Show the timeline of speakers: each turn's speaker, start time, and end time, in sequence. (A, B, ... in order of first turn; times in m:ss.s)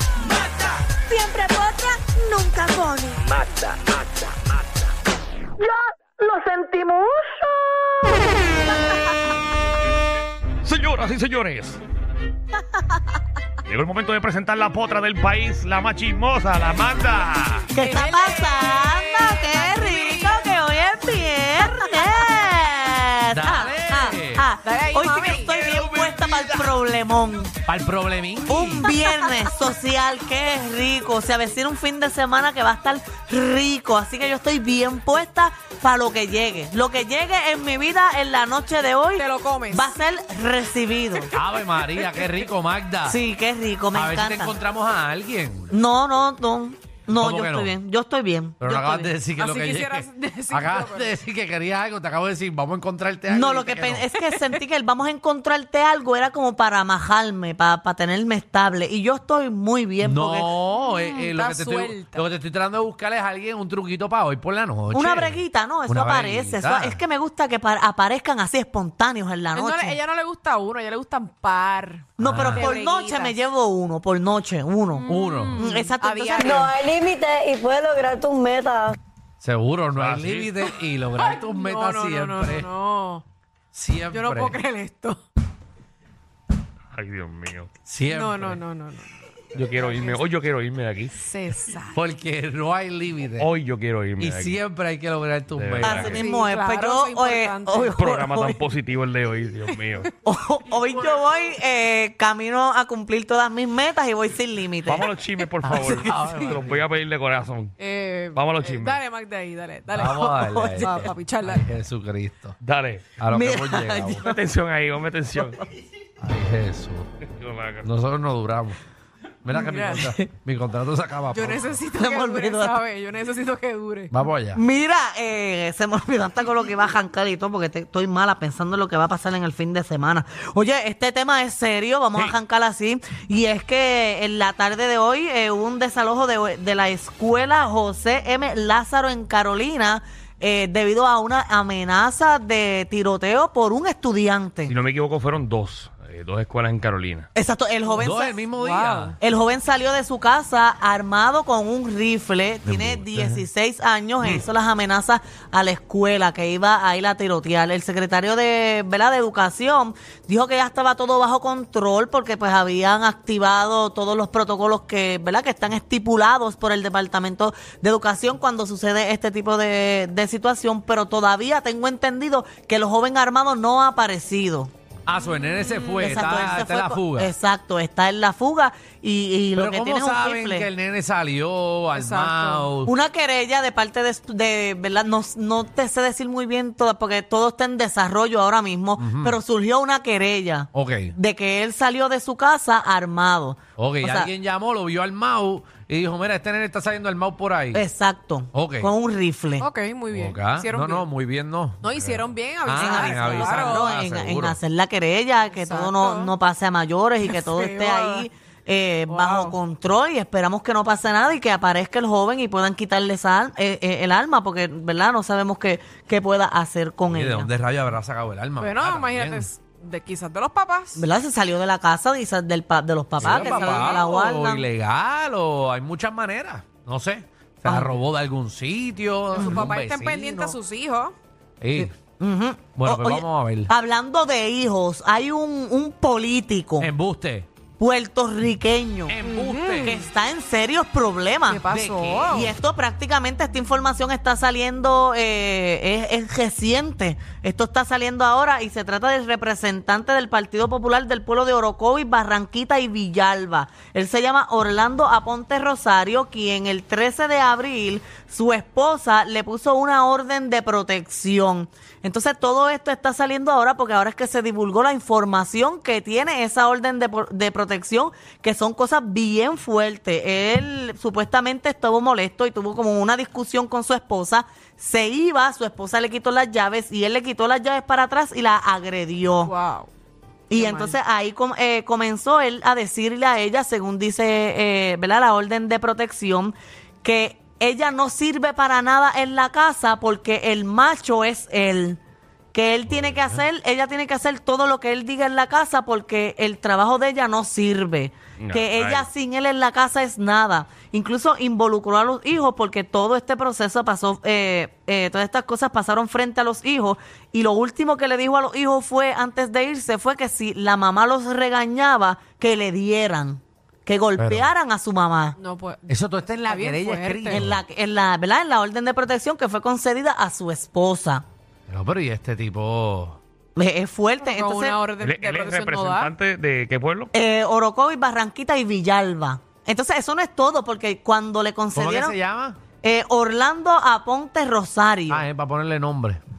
0:00.4-0:03.4 A
0:05.6-0:07.2 A
0:10.6-0:11.8 B
0:13.6-0:17.7 B
0:17.7-0:27.5 A
0:17.8-0:20.5 C
0:21.6-0:22.2 C
0:23.3-0:24.5 D
0:24.6-0:25.5 C
0:25.7-0:26.2 B
0:27.7-0:28.9 D
0:28.5-0:41.3 A
0:39.2-0:39.9 C
0:41.4-0:43.2 D
0:43.0-0:44.6 A
0:43.9-0:45.7 D
0:45.7-0:49.1 A
0:47.1-0:47.8 D
0:48.6-0:54.1 D
0:49.4-0:51.1 C
0:53.3-1:00.5 A
0:54.3-0:54.6 C
1:00.0-1:07.0 D
1:00.8-1:02.2 C
1:04.9-1:10.0 A
1:09.5-1:13.4 C
1:12.2-1:16.7 A
1:12.2-1:12.7 D
1:15.0-1:16.7 C
1:15.1-1:15.7 D
1:16.4-1:19.0 E
1:19.4-1:22.7 D
1:20.0-1:20.6 B
1:21.2-1:23.2 C
1:23.7-1:24.6 D
1:24.1-1:25.2 C
1:26.9-1:27.7 B
1:27.9-1:28.6 D
1:28.1-1:29.2 C
1:29.5-1:31.2 B
1:29.8-1:30.1 C
1:31.2-1:32.0 C
1:31.9-1:33.5 D
1:33.4-1:34.6 B
1:34.2-1:36.2 D
1:35.5-1:36.2 B
1:35.8-1:38.6 A
1:36.2-1:38.0 C
1:37.9-1:40.1 B
1:40.2-1:45.1 A
1:44.9-1:47.8 B
1:45.7-1:46.1 A
1:45.7-1:46.8 D
1:47.8-1:51.7 C
1:48.4-1:49.0 B
1:49.9-1:52.6 D
1:50.0-1:51.1 A
1:52.6-1:53.1 B
1:53.2-1:54.3 D
1:53.3-1:54.4 A
1:54.2-1:55.6 B
1:56.2-1:57.1 D
1:57.3-1:57.9 B
1:57.8-1:58.8 D
1:59.4-2:01.7 D
1:59.6-2:00.3 A
1:59.7-2:00.1 C
2:01.3-2:04.1 C
2:02.0-2:02.8 A
2:04.1-2:04.6 D
2:04.5-2:24.8 A
2:24.7-2:27.3 B
2:27.4-2:28.4 A
2:28.0-2:29.2 D
2:28.6-2:29.1 C
2:29.2-2:54.7 A
2:32.6-2:33.4 D
2:55.1-2:57.3 D
2:55.5-2:56.1 C
2:56.0-3:00.7 A
2:59.6-3:02.9 D
3:02.0-3:02.7 C
3:02.8-3:14.3 A
3:09.0-3:09.4 D
3:10.7-3:11.2 D
3:13.8-3:17.8 D
3:17.7-3:19.7 A
3:18.5-3:18.9 D
3:19.6-3:21.1 C
3:20.1-3:24.6 D
3:21.8-3:23.9 C
3:22.7-3:37.5 A
3:25.5-3:26.3 C
3:27.3-3:28.3 C
3:29.1-3:29.6 C
3:37.1-3:39.5 D
3:38.6-3:41.0 C
3:41.0-3:44.7 A
3:43.2-3:50.6 D
3:43.2-3:44.0 C
3:47.6-3:48.0 A
3:49.4-3:49.7 A
3:49.4-3:51.1 C
3:51.6-3:51.9 D
3:51.8-3:56.9 A
3:52.8-3:53.7 D
3:56.8-3:57.5 D
3:57.8-3:59.2 A
3:59.1-4:00.0 D
3:59.2-4:00.0 C
3:59.8-4:01.7 A
4:01.5-4:02.5 C
4:01.7-4:02.4 D
4:02.3-4:39.5 A
4:39.5-4:39.9 C
4:40.5-4:52.0 A
4:40.5-4:41.0 C
4:52.5-5:15.4 A
4:52.9-4:53.4 D
4:58.4-4:59.1 B
5:14.2-5:14.5 D
5:15.4-5:15.9 C
5:15.9-5:17.6 D
5:16.4-5:17.5 C
5:17.3-5:21.2 A
5:21.7-5:23.2 D
5:23.6-5:24.8 A
5:24.2-5:26.1 C
5:25.0-5:27.1 B
5:27.1-5:32.2 A
5:31.7-5:32.6 D
5:32.8-5:35.3 A
5:35.1-5:36.2 D